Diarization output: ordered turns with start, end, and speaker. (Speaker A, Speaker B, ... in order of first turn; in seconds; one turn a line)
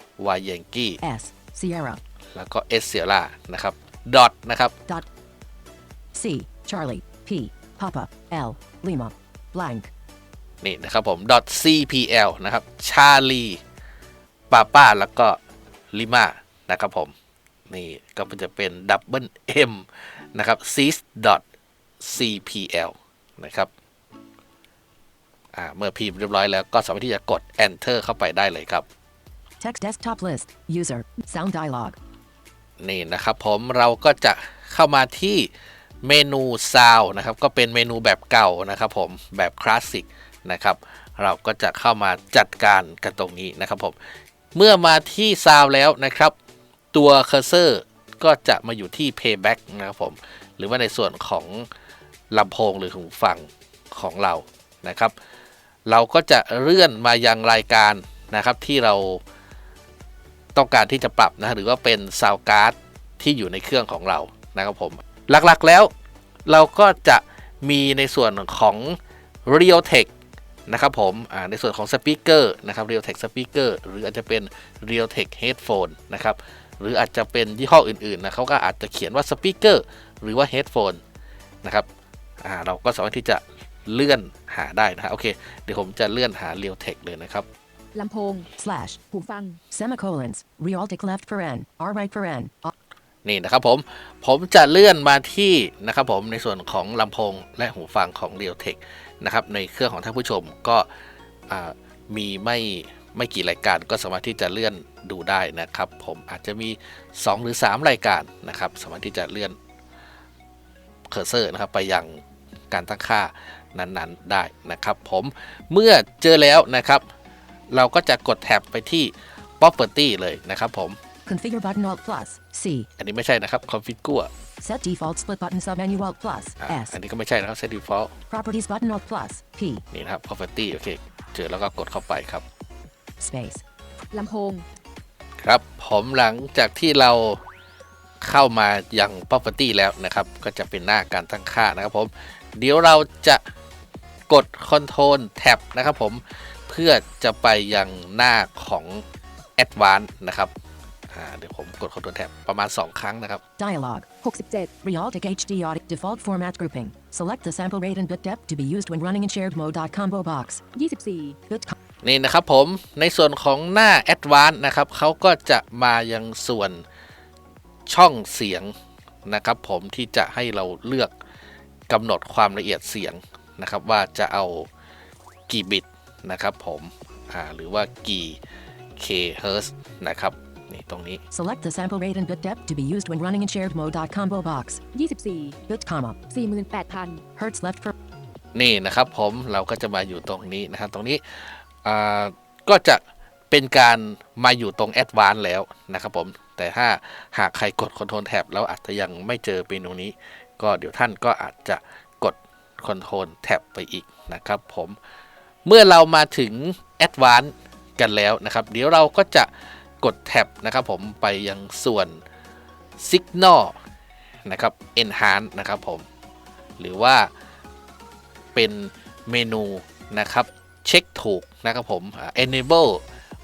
Speaker A: 0.2-1.0
Speaker B: 1.0-2.0
Speaker A: 2.3-4.7
Speaker B: 6.1-9.9
Speaker A: 10.6-13.6
Speaker A: 14.5-15.4
Speaker A: 15.9-17.1
Speaker A: 17.7-21.4
Speaker A: 22.0-23.7
Speaker A: 25.5-28.9
Speaker B: 29.6-32.0
Speaker A: 32.8-35.5
Speaker A: 36.0-44.0
Speaker A: 44.5-46.3
Speaker A: 46.9-51.7
Speaker A: 52.3-55.1
Speaker A: 55.9-59.2
Speaker A: 60.5-65.9
Speaker A: 66.5-70.1
Speaker A: 70.7-81.0
Speaker A: 82.4-87.5
Speaker C: 87.9-88.5
Speaker B: 88.6-89.0
Speaker C: 89.1-89.6
Speaker B: 89.7-92.7
Speaker A: 93.2-100.9
Speaker A: 101.5-109.6
Speaker A: 111.1-117.0
Speaker A: 117.7-121.0
Speaker B: 121.2-122.9
Speaker A: 123.0-124.3
Speaker B: 124.6-127.0
Speaker A: 126.6-128.1
Speaker B: 128.3-129.8
Speaker A: 129.9-132.4
Speaker B: 133.2-133.6
Speaker C: 134.1-134.6
Speaker A: 135.4-137.4
Speaker A: 138.2-143.4
Speaker A: 144.3-149.0
Speaker A: 149.6-150.5
Speaker A: 151.1-153.4
Speaker B: 153.6-154.1
Speaker C: 154.2-154.7
Speaker B: 154.8-160.6
Speaker C: 160.7-161.4
Speaker B: 161.5-161.7
Speaker A: 162.0-166.8
Speaker A: 167.9-168.7
Speaker A: 169.2-171.1
Speaker A: 171.9-174.7
Speaker A: 175.5-178.4
Speaker A: 179.0-181.2
Speaker B: 181.3-184.8
Speaker C: 184.9-185.6
Speaker B: 185.7-186.2
Speaker C: 186.3-187.2
Speaker B: 187.3-187.9
Speaker A: 188.5-205.0
Speaker A: 205.6-212.2
Speaker A: 213.0-213.8
Speaker A: 214.4-216.1
Speaker A: 216.8-217.3
Speaker A: 218.5-223.0